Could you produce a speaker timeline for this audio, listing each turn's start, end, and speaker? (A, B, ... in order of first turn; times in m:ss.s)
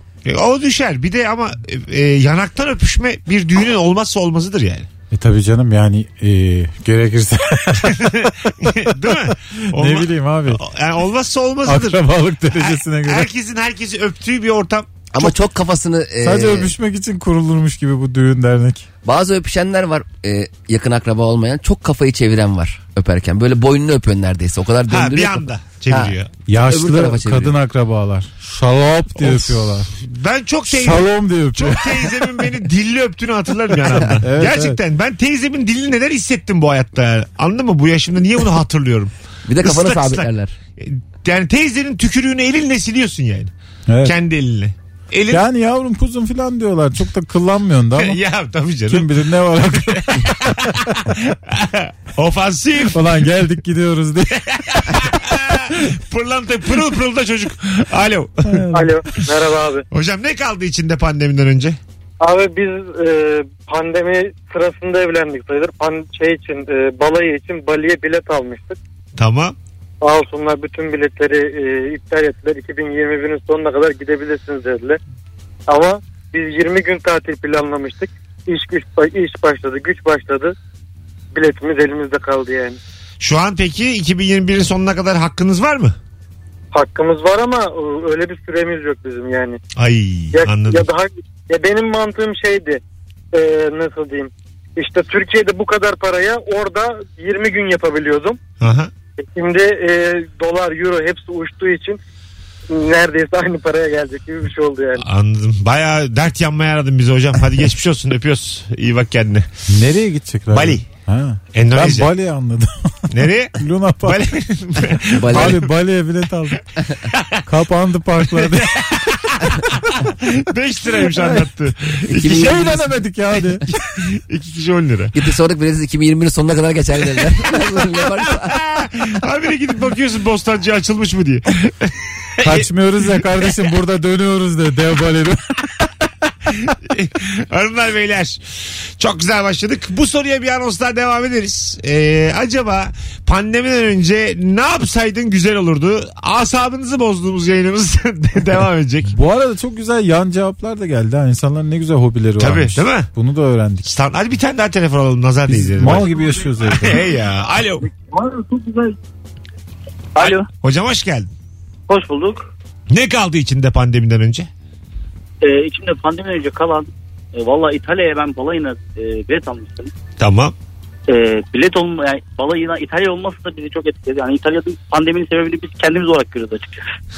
0:00.2-0:04.9 A
0:05.1-0:10.6 B
0:07.8-0:12.0 A
0:11.6-0:13.3 B
0:12.5-0:15.3 A
0:15.1-0:16.7 C
0:16.2-0:18.8 B
0:19.0-0:26.1 C
0:24.9-0:26.3 A
0:26.5-0:29.9 B
0:26.6-0:27.6 C
0:29.2-0:43.5 A
0:30.7-0:32.2 B
0:34.2-0:34.8 B
0:39.5-0:40.5 C
0:44.0-0:45.4 A
0:45.3-0:48.2 B
0:47.9-0:49.1 A
0:48.9-0:51.2 B
0:49.9-0:53.0 A
0:52.9-0:55.0 B
0:54.5-0:58.6 A
0:58.4-0:59.0 B
0:58.7-0:59.8 D
0:59.9-1:01.8 A
1:02.2-1:08.8 D
1:09.2-1:09.5 A
1:10.0-1:15.0 D
1:15.7-1:20.5 D
1:21.3-1:22.8 D
1:23.2-1:26.0 A
1:26.7-1:29.6 D
1:29.8-1:30.8 A
1:30.3-1:32.8 D
1:33.3-1:38.4 D
1:38.6-1:38.9 A
1:39.3-1:42.0 D
1:42.7-1:45.0 D
1:45.0-1:49.5 A
1:49.7-1:53.1 B
1:50.5-1:50.8 A
1:51.5-1:52.1 A
1:53.1-1:55.6 A
1:53.6-1:54.2 B
1:55.1-1:55.6 C
1:55.3-1:56.6 B
1:57.4-1:58.8 B
1:58.4-2:02.8 A
2:02.1-2:02.8 C
2:02.1-2:03.6 B
2:03.7-2:05.1 A
2:05.1-2:08.6 C
2:08.2-2:12.7 A
2:12.4-2:15.5 B
2:16.8-2:18.4 A
2:19.0-2:29.1 A
2:29.1-2:33.9 B
2:32.4-2:33.1 A
2:33.8-2:37.9 A
2:35.5-2:37.0 B
2:40.2-2:41.3 A
2:41.9-2:42.5 E
2:42.9-2:44.5 A
2:45.4-2:49.9 E
2:50.2-2:50.5 A
2:51.1-2:56.9 E